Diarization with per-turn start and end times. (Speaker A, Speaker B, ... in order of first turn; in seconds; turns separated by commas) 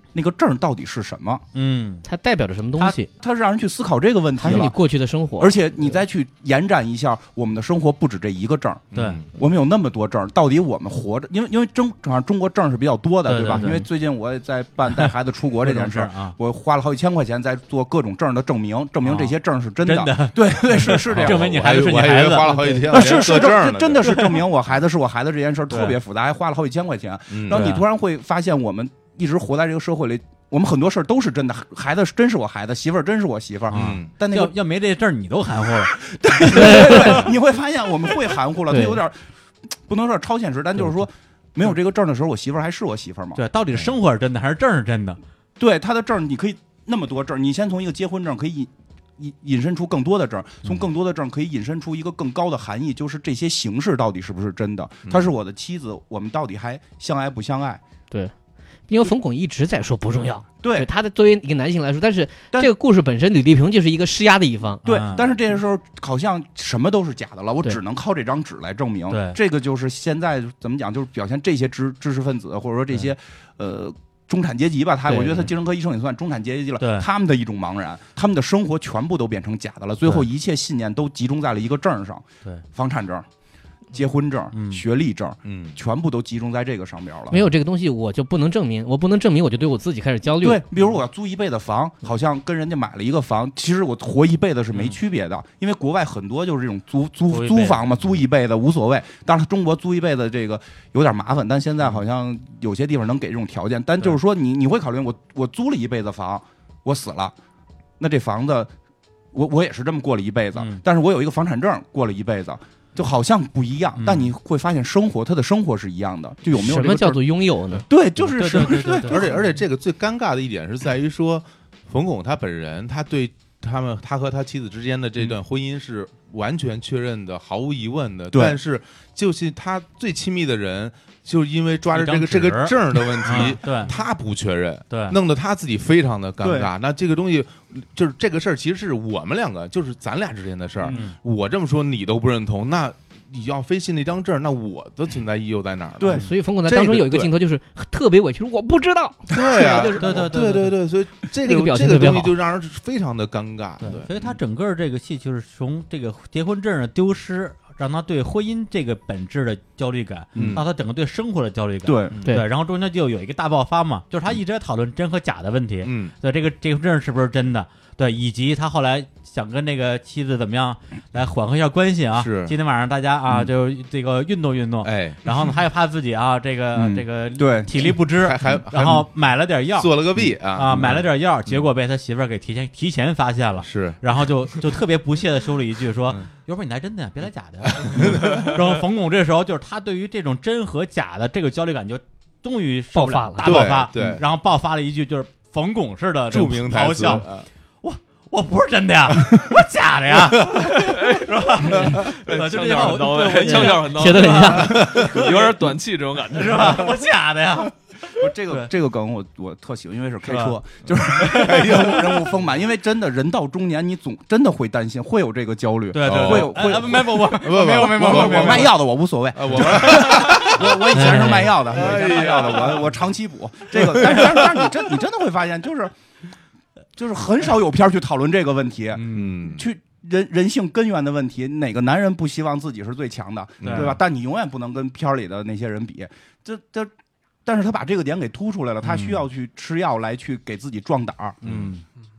Speaker A: 0.1-1.4, Speaker B: 1.6-2.0, Speaker C: 2.0-3.1, Speaker A: 3.2-4.8, Speaker C: 4.4-5.6, Speaker A: 5.4-21.7, Speaker D: 8.9-9.3, Speaker B: 8.9-9.2, Speaker B: 13.3-13.9, Speaker B: 15.7-16.4, Speaker B: 19.0-23.5, Speaker D: 21.1-24.4, Speaker A: 22.9-34.5, Speaker B: 25.7-26.0, Speaker D: 27.3-27.8, Speaker B: 27.5-27.9, Speaker B: 33.7-37.3, Speaker D: 33.7-34.1, Speaker A: 35.9-39.2, Speaker C: 36.5-37.2, Speaker C: 38.7-39.0, Speaker A: 39.7-43.4, Speaker B: 43.4-45.2, Speaker A: 45.6-57.8, Speaker C: 58.9-64.8, Speaker A: 60.6-60.9, Speaker B: 64.8-65.3, Speaker A: 64.8-83.3, Speaker B: 69.1-69.4, Speaker B: 75.1-75.5, Speaker B: 76.8-77.1, Speaker A: 83.9-87.4, Speaker B: 84.5-84.8, Speaker D: 85.5-85.8, Speaker C: 87.3-90.6, Speaker A: 90.4-107.3, Speaker B: 97.3-97.8, Speaker A: 108.0-108.7, Speaker A: 109.3-119.4, Speaker B: 110.6-110.8, Speaker B: 114.0-114.3, Speaker C: 116.5-117.8, Speaker B: 118.2-119.3, Speaker D: 119.0-147.3, Speaker A: 128.3-128.6, Speaker B: 131.9-133.9, Speaker A: 133.3-133.9, Speaker B: 134.9-135.2, Speaker A: 136.4-136.7, Speaker B: 140.9-141.2, Speaker A: 146.0-146.2, Speaker C: 146.1-150.3, Speaker D: 149.3-154.3, Speaker B: 149.8-150.8, Speaker C: 151.4-152.3, Speaker B: 153.8-197.3, Speaker A: 160.3-160.6, Speaker D: 160.4-160.7, Speaker A: 161.8-162.2, Speaker D: 165.8-166.2, Speaker D: 172.1-172.6, Speaker D: 174.8-175.2, Speaker A: 176.7-178.0, Speaker D: 178.2-179.1, Speaker D: 179.8-181.7, Speaker D: 183.6-184.0, Speaker D: 187.7-188.7, Speaker C: 192.9-193.7, Speaker D: 193.4-194.2, Speaker D: 196.3-197.5, Speaker B: 197.8-205.5, Speaker D: 200.2-200.7, Speaker E: 200.8-207.0, Speaker C: 203.4-204.8, Speaker D: 204.6-205.3, Speaker B: 206.3-208.7, Speaker A: 208.2-225.9, Speaker B: 210.3-210.6, Speaker B: 211.2-211.5, Speaker D: 211.3-212.4, Speaker B: 215.9-218.7, Speaker D: 216.0-218.8, Speaker D: 219.3-221.1, Speaker B: 219.6-220.3, Speaker B: 220.9-221.7, Speaker D: 221.7-223.0, Speaker D: 223.7-224.7, Speaker A: 227.0-236.9, Speaker D: 228.9-229.7, Speaker B: 233.6-233.9, Speaker D: 233.6-234.0, Speaker A: 237.4-241.4, Speaker B: 238.9-239.2, Speaker B: 241.4-241.8, Speaker D: 241.4-241.8